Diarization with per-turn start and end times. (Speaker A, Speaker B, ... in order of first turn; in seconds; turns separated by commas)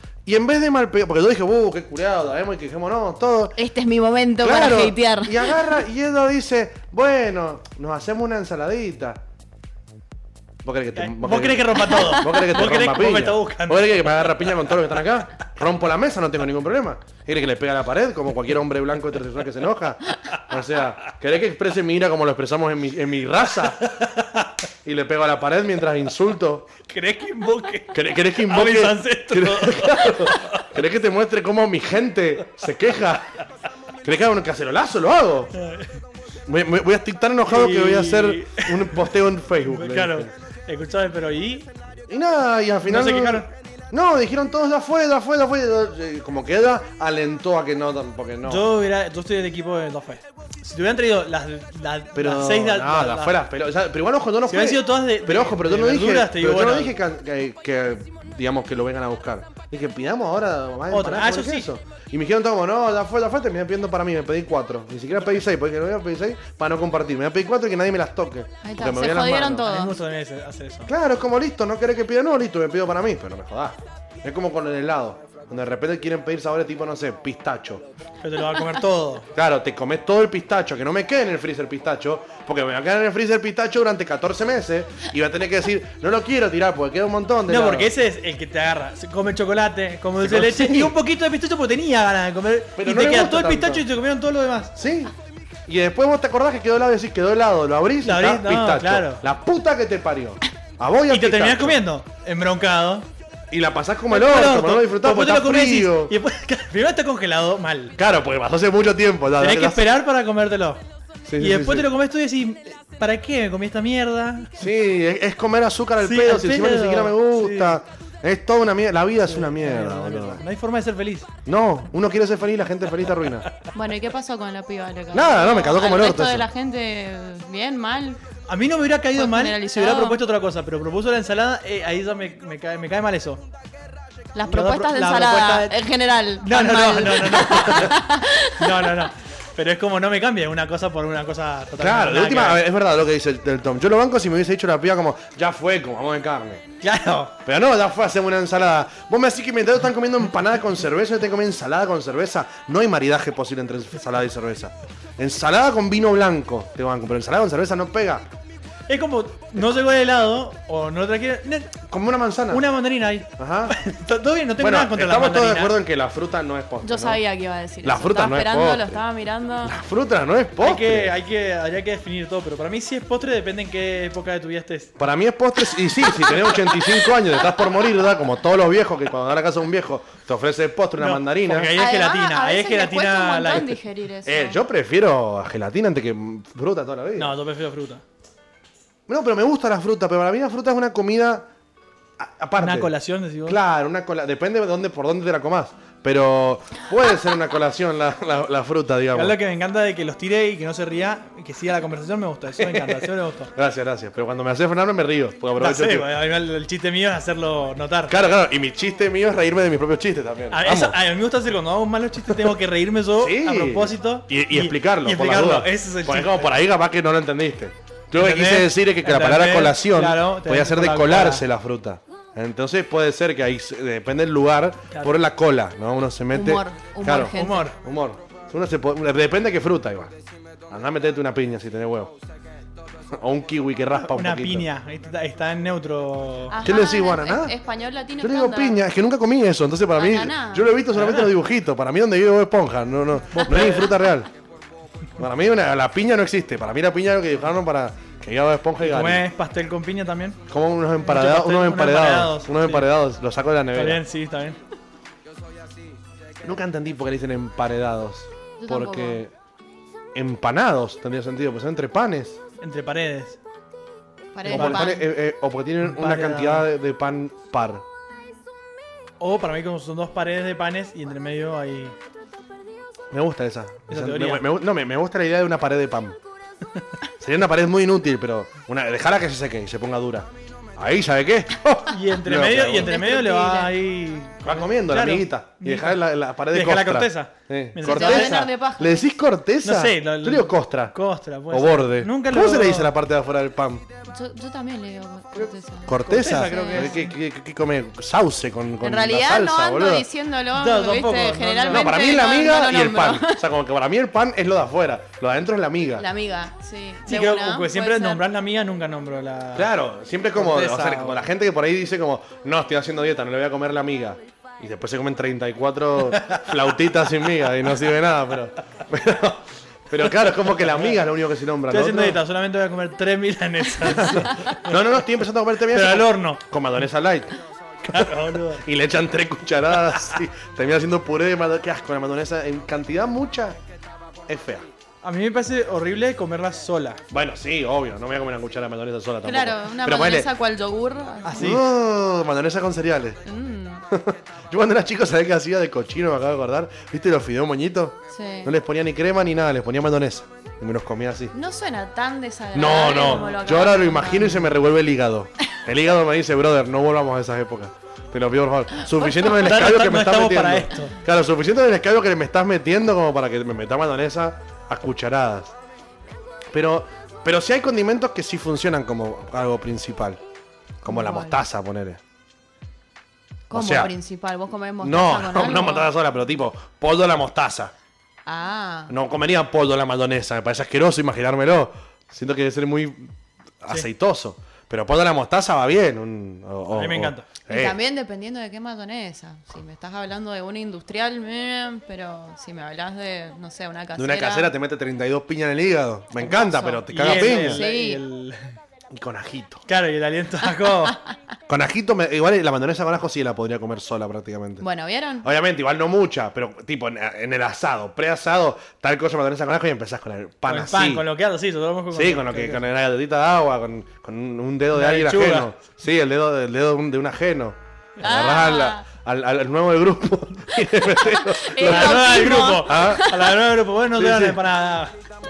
Speaker A: 0.2-3.6, Speaker B: 3.6-5.7, Speaker A: 4.4-9.2, Speaker A: 10.6-23.9, Speaker C: 10.9-14.4, Speaker C: 23.8-24.4, Speaker A: 24.8-26.7, Speaker C: 26.9-30.7, Speaker A: 27.9-33.3, Speaker A: 34.0-35.5, Speaker C: 35.5-35.9, Speaker A: 36.5-40.3, Speaker C: 37.5-39.1, Speaker C: 39.6-41.7, Speaker A: 42.1-48.7, Speaker C: 42.9-43.5, Speaker C: 48.4-53.4, Speaker A: 52.1-69.7, Speaker C: 54.5-57.0, Speaker C: 60.9-61.7, Speaker B: 68.6-70.0, Speaker C: 69.6-70.9, Speaker A: 70.9-77.8, Speaker C: 78.2-79.3, Speaker A: 79.3-87.9, Speaker C: 87.5-94.7, Speaker A: 90.2-91.0, Speaker A: 92.7-93.8, Speaker A: 94.7-95.1, Speaker A: 95.7-101.8, Speaker C: 98.0-99.2, Speaker C: 101.1-103.1, Speaker A: 103.5-106.1, Speaker C: 104.1-108.0, Speaker A: 108.0-109.9, Speaker C: 109.4-110.8, Speaker A: 111.2-111.9, Speaker C: 111.4-114.6, Speaker A: 114.6-120.4, Speaker C: 116.0-117.8, Speaker C: 119.2-121.3, Speaker A: 121.5-123.5, Speaker B: 123.7-128.2, Speaker A: 125.1-126.5, Speaker C: 128.5-133.4, Speaker B: 129.1-130.2, Speaker B: 134.3-139.0, Speaker C: 134.5-135.7, Speaker C: 136.4-142.6, Speaker A: 141.8-146.6, Speaker C: 146.8-147.3, Speaker A: 147.4-158.2, Speaker C: 158.9-161.8, Speaker A: 161.9-162.7, Speaker C: 162.5-165.8, Speaker A: 163.4-163.8, Speaker A: 164.6-167.2, Speaker B: 166.8-169.7, Speaker A: 167.8-169.0, Speaker A: 169.6-171.1, Speaker C: 170.6-174.9, Speaker A: 175.0-181.7, Speaker C: 181.0-183.7, Speaker B: 181.7-184.6, Speaker A: 184.2-187.4, Speaker C: 187.2-188.0, Speaker A: 189.1-191.5, Speaker A: 192.2-192.9, Speaker C: 192.6-193.6, Speaker A: 193.4-199.4, Speaker C: 199.1-203.5, Speaker A: 202.6-206.1, Speaker C: 205.6-208.2, Speaker A: 208.1-211.0, Speaker C: 210.5-216.5, Speaker A: 213.2-230.1, Speaker C: 218.1-221.4, Speaker C: 224.9-225.2, Speaker B: 226.3-227.7, Speaker C: 227.3-227.8, Speaker A: 230.7-232.1, Speaker A: 233.1-234.7, Speaker C: 234.0-236.6, Speaker B: 236.5-238.8, Speaker A: 236.6-237.6, Speaker A: 238.2-244.3, Speaker B: 239.9-240.8, Speaker C: 240.9-241.3, Speaker C: 243.3-243.9, Speaker A: 245.2-249.2, Speaker C: 248.8-250.4, Speaker A: 250.5-254.0, Speaker C: 251.0-252.9, Speaker C: 253.7-254.6, Speaker A: 256.4-259.3, Speaker B: 258.6-259.2, Speaker A: 260.1-262.4, Speaker C: 262.6-263.4, Speaker B: 264.3-265.1, Speaker A: 264.4-267.8, Speaker C: 264.5-264.9, Speaker C: 265.8-266.7, Speaker C: 269.2-271.9, Speaker A: 273.1-276.2, Speaker C: 273.9-274.4, Speaker A: 277.2-282.9, Speaker C: 281.9-288.5, Speaker B: 282.5-283.7, Speaker A: 284.4-290.9, Speaker B: 287.8-289.1, Speaker C: 289.6-292.9, Speaker A: 291.5-293.8, Speaker B: 294.1-297.1, Speaker A: 295.4-300.1, Speaker C: 296.0-297.1, Speaker B: 298.8-303.4, Speaker C: 300.5-302.1, Speaker A: 301.7-306.1, Speaker B: 306.0-308.2, Speaker C: 307.0-309.7, Speaker A: 309.5-322.2, Speaker C: 310.3-311.2, Speaker C: 321.7-324.7, Speaker A: 323.8-327.3, Speaker C: 325.7-326.4, Speaker A: 327.8-333.6, Speaker C: 327.9-328.6, Speaker A: 334.3-334.6, Speaker C: 335.0-337.0, Speaker A: 337.1-340.3, Speaker B: 339.2-341.6, Speaker C: 341.2-341.6, Speaker A: 341.4-343.2, Speaker B: 343.2-343.8, Speaker A: 343.9-351.3, Speaker B: 348.1-348.5, Speaker B: 351.3-354.4, Speaker A: 352.5-365.5, Speaker C: 359.2-360.9, Speaker A: 366.5-370.2, Speaker A: 370.8-372.0, Speaker B: 370.9-371.4, Speaker B: 373.5-375.9, Speaker A: 373.5-373.9, Speaker A: 374.8-377.7, Speaker B: 378.2-378.9, Speaker A: 378.9-387.8, Speaker C: 386.7-387.3, Speaker B: 387.5-394.5, Speaker A: 393.9-397.6, Speaker B: 396.2-398.0, Speaker C: 396.9-398.5, Speaker A: 398.9-399.6, Speaker C: 399.7-401.0, Speaker A: 401.5-404.6, Speaker B: 404.6-405.3, Speaker A: 405.2-411.1, Speaker C: 410.5-412.6, Speaker A: 411.9-423.1, Speaker C: 414.7-415.5, Speaker B: 418.0-418.8, Speaker B: 420.8-423.3, Speaker C: 421.6-424.9, Speaker A: 423.9-424.4